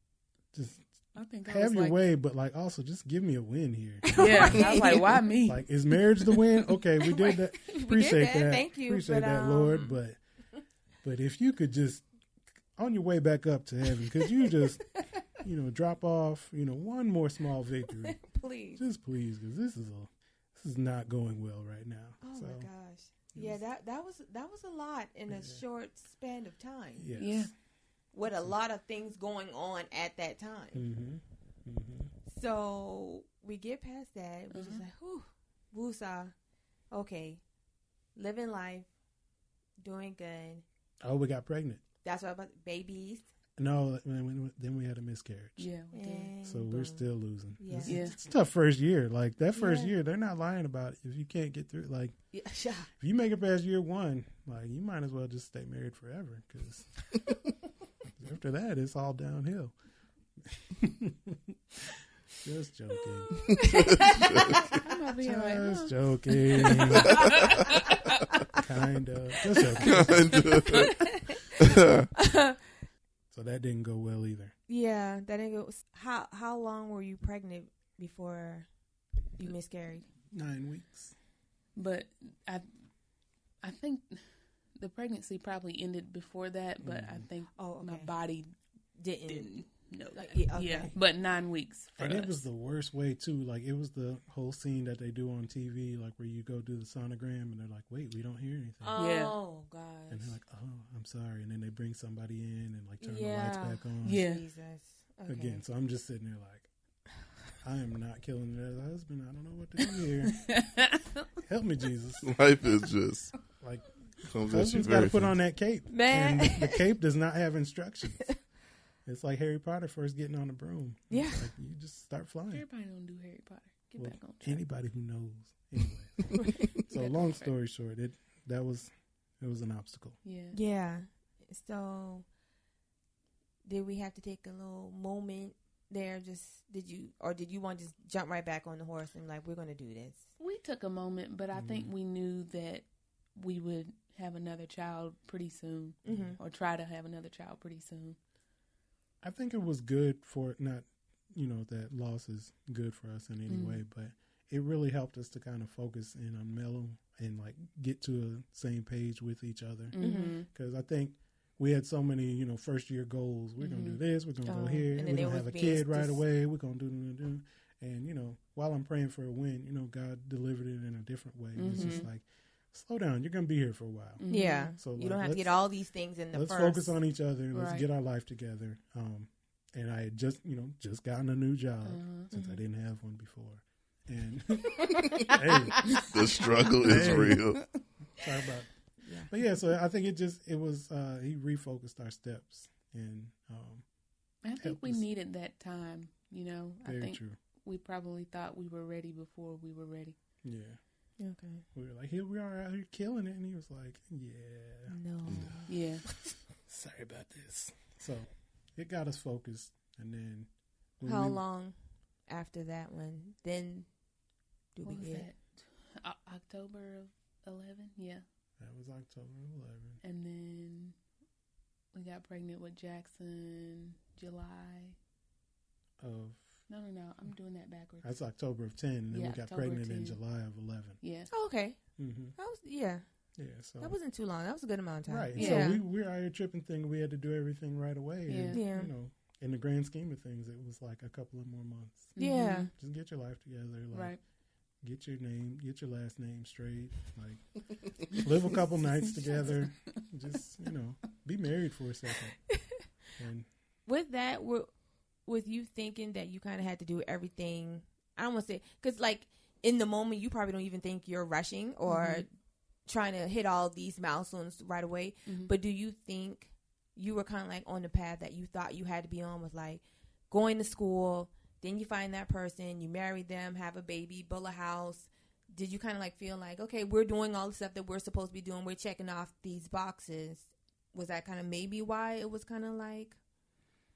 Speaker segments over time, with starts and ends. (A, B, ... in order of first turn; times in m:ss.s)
0:00.5-0:00.8 A
0:01.1-0:02.0 B
0:01.4-0:10.2 A
0:04.1-0:05.2 C
0:04.2-0:05.6 B
0:07.1-0:10.0 C
0:11.0-0:12.0 A
0:12.8-0:14.8 A
0:15.4-0:18.2 A
0:18.1-0:18.8 C
0:18.8-0:22.7 A
0:22.2-0:27.1 C
0:25.3-0:25.6 A
0:27.0-0:27.5 A
0:27.2-0:27.5 B
0:28.1-0:30.8 C
0:30.7-0:32.1 A
0:32.2-0:36.3 C
0:34.5-0:34.8 B
0:36.9-0:37.4 C
0:38.1-0:38.9 C
0:39.8-0:40.6 C
0:41.0-0:41.8 A
0:42.0-0:43.2 C
0:43.6-0:45.7 A
0:45.6-0:46.3 B
0:45.9-0:47.1 C
0:46.4-0:52.2 A
0:47.6-0:48.1 C
0:47.8-0:48.1 B
0:49.6-0:49.9 C
0:52.3-0:52.9 C
0:53.0-0:57.0 A
0:58.2-0:59.7 A
1:00.4-1:03.5 A
1:03.6-1:04.7 C
1:03.6-1:04.6 D
1:04.6-1:07.8 B
1:05.2-1:07.4 A
1:08.5-1:10.7 A
1:09.6-1:10.0 C
1:09.8-1:11.0 D
1:10.7-1:12.6 C
1:11.6-1:12.1 D
1:13.3-1:14.5 A
1:14.7-1:18.7 C
1:19.4-1:20.1 C
1:20.3-1:21.1 A
1:21.8-1:22.7 B
1:23.6-1:28.5 B
1:26.8-1:27.3 A
1:27.6-1:28.1 C
1:29.0-1:29.5 C
1:29.3-1:32.4 B
1:30.1-1:30.9 C
1:32.0-1:39.0 A
1:38.8-1:40.3 C
1:39.0-1:39.3 B
1:40.1-1:44.2 A
1:43.0-1:45.6 C
1:44.0-1:44.4 B
1:45.3-1:46.7 A
1:47.6-1:50.5 A
1:50.3-1:51.2 B
1:51.4-1:52.3 A
1:52.2-1:53.4 D
1:53.6-1:53.9 A
1:54.2-1:55.3 D
1:54.4-1:58.4 A
1:55.9-1:56.8 C
1:59.0-2:02.6 A
2:01.1-2:01.5 C
2:02.5-2:04.6 B
2:04.0-2:10.2 A
2:06.6-2:07.5 B
2:10.2-2:10.6 B
2:10.5-2:12.2 C
2:13.6-2:20.2 C
2:20.4-2:28.2 B
2:21.5-2:21.9 A
2:26.0-2:26.4 C
2:26.1-2:26.4 A
2:29.2-2:54.2 A
2:33.5-2:33.8 B
2:39.9-2:40.5 B
2:40.0-2:40.4 C
2:43.6-2:44.9 B
2:44.9-2:46.2 C
2:51.6-2:52.1 B
2:54.2-2:54.7 B
2:54.3-2:56.9 C
2:54.8-2:55.5 A
2:56.3-3:06.0 A
2:57.5-2:57.8 B
3:01.8-3:02.3 B
3:02.3-3:02.6 C
3:04.9-3:05.4 C
3:06.1-3:07.7 D
3:06.8-3:07.4 A
3:08.2-3:13.8 A
3:09.0-3:09.3 C
3:14.4-3:20.2 B
3:14.6-3:15.0 A
3:16.8-3:17.4 A
3:20.4-3:20.8 A
3:21.2-3:21.6 C
3:21.7-3:25.6 A
3:24.9-3:26.3 C
3:25.7-3:26.0 B
3:26.6-3:31.4 A
3:31.0-3:33.9 C
3:34.7-3:35.3 C
3:34.8-3:38.2 B
3:38.6-3:40.0 A
3:40.0-3:41.0 B
3:41.9-3:45.0 B
3:46.0-3:46.6 A
3:46.7-3:48.1 B
3:48.0-3:51.0 A
3:49.1-3:50.2 B
3:51.0-3:51.3 B
3:51.3-3:51.8 C
3:52.0-3:52.3 A
3:52.4-3:53.0 C
3:53.4-3:54.0 A
3:53.8-3:55.8 C
3:55.1-4:02.2 A
3:55.3-3:55.7 B
3:58.3-3:58.6 B
3:58.5-3:58.9 C
4:02.2-4:02.7 B
4:02.2-4:02.7 C
4:02.7-4:04.2 A
4:03.9-4:04.2 B
4:04.8-4:12.4 A
4:09.2-4:09.7 B
4:13.2-4:13.5 A
4:13.8-4:14.7 C
4:15.2-4:22.2 C
4:21.9-4:22.2 B
4:22.8-4:43.2 C
4:25.2-4:25.5 B